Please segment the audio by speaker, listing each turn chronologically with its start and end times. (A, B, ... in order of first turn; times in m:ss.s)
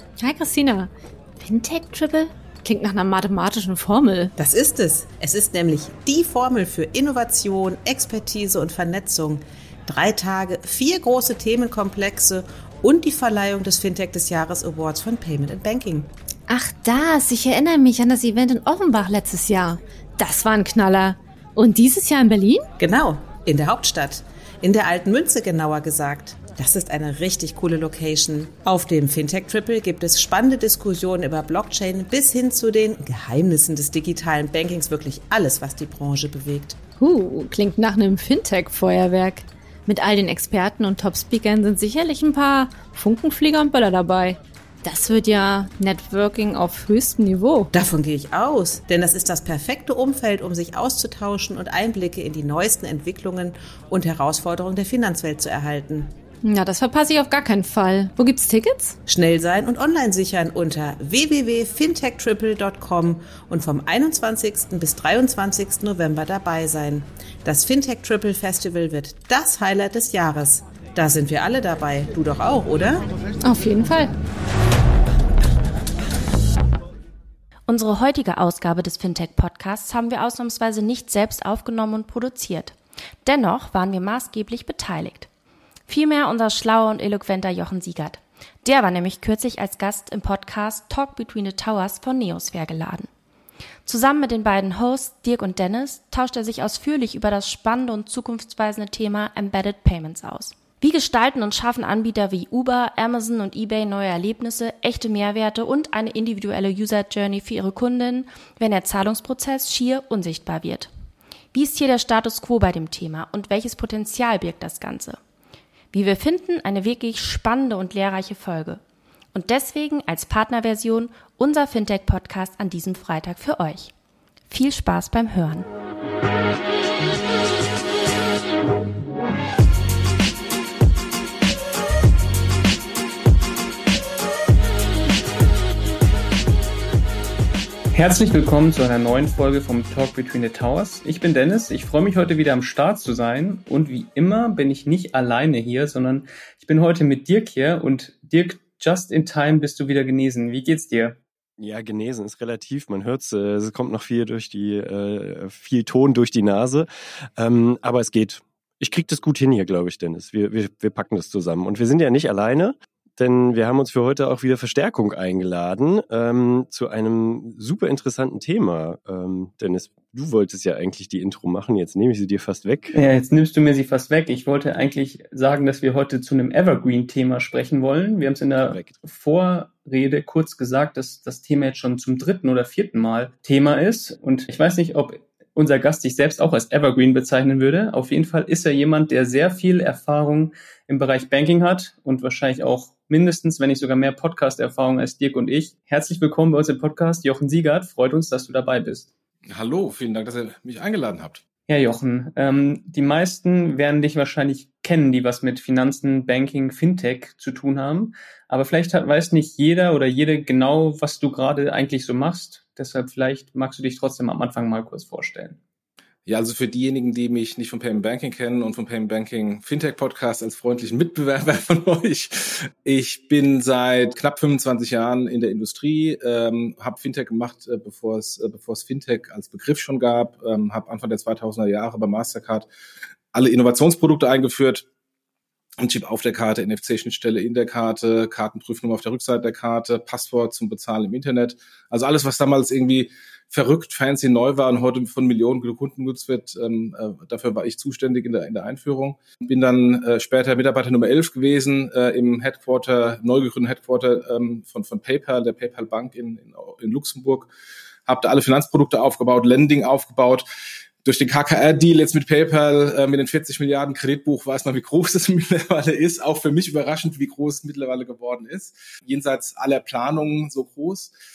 0:00.2-0:04.3 A
0:04.4-0:16.1 B
0:16.5-0:22.7 A
0:22.8-0:36.8 B
0:37.0-0:47.7 A
0:47.7-0:56.1 B
0:56.4-0:59.0 A
0:59.1-1:13.1 B
1:13.4-1:14.1 A
1:17.7-1:25.3 C
1:25.9-1:33.1 C
1:33.9-1:50.9 C
1:51.5-1:55.2 C
1:55.9-1:58.8 C
1:59.3-2:03.9 C
2:04.5-2:05.7 C
2:17.9-2:31.2 D
2:31.6-2:53.0 E
2:52.9-3:19.1 D
2:58.6-2:59.0 E
3:19.5-3:21.4 F
3:21.7-3:35.6 D
3:36.3-3:52.7 F
3:53.3-3:54.9 F
3:55.8-4:17.5 F
4:18.1-4:20.5 F
4:21.0-4:31.1 F